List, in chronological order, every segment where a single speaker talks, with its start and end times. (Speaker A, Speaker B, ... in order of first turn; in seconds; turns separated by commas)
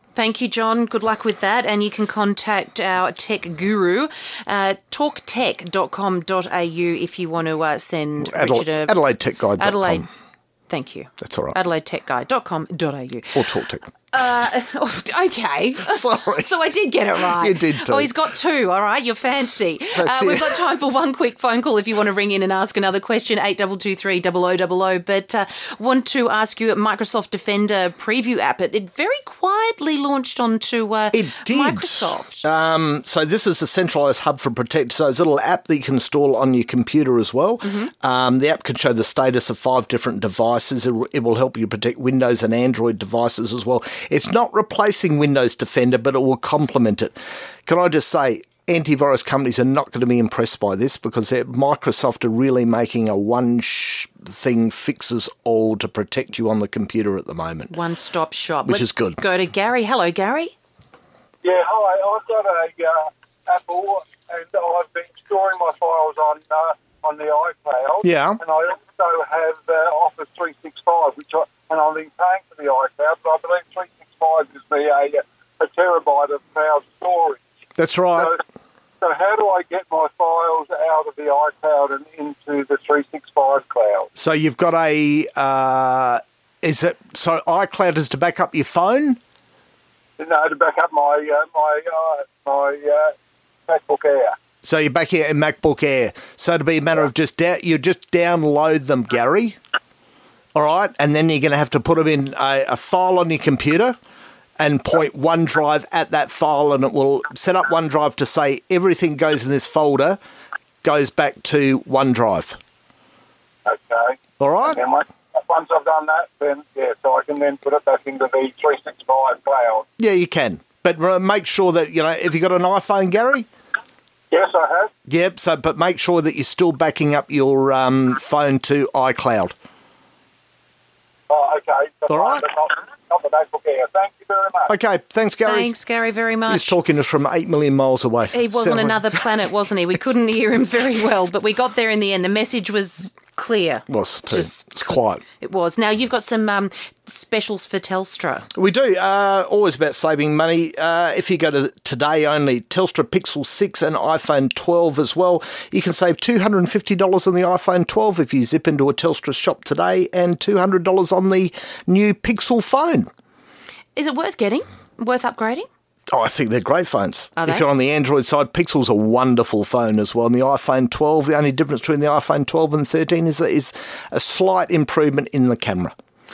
Speaker A: 0.2-9.0, Speaker B: 8.2-10.1, Speaker A: 9.6-10.1, Speaker A: 10.7-13.4, Speaker B: 11.2-11.6, Speaker B: 13.3-13.8, Speaker A: 14.1-32.5, Speaker B: 15.9-16.5, Speaker B: 17.2-18.1, Speaker B: 19.9-20.6, Speaker B: 31.1-47.1, Speaker A: 37.6-37.9, Speaker B: 47.7-57.7, Speaker A: 57.7-60.5, Speaker B: 58.7-59.2, Speaker C: 61.4-77.4, Speaker B: 68.0-68.4, Speaker B: 77.8-78.3, Speaker C: 78.2-78.4, Speaker C: 79.0-84.1, Speaker B: 84.2-89.2, Speaker C: 90.2-93.1, Speaker C: 93.7-94.4, Speaker B: 94.6-99.6, Speaker B: 100.5-104.0, Speaker B: 104.6-110.2, Speaker B: 110.8-112.6, Speaker C: 113.7-119.8, Speaker B: 114.4-114.8, Speaker B: 120.0-123.5, Speaker C: 124.3-124.9, Speaker B: 125.1-129.5, Speaker C: 131.3-134.7, Speaker B: 132.1-132.4, Speaker B: 134.7-135.7, Speaker A: 135.5-136.8, Speaker B: 136.5-139.2, Speaker A: 138.3-144.7, Speaker B: 143.9-145.2, Speaker A: 145.4-148.5, Speaker B: 148.6-163.1, Speaker A: 163.9-165.7, Speaker B: 166.1-175.9, Speaker A: 167.4-167.6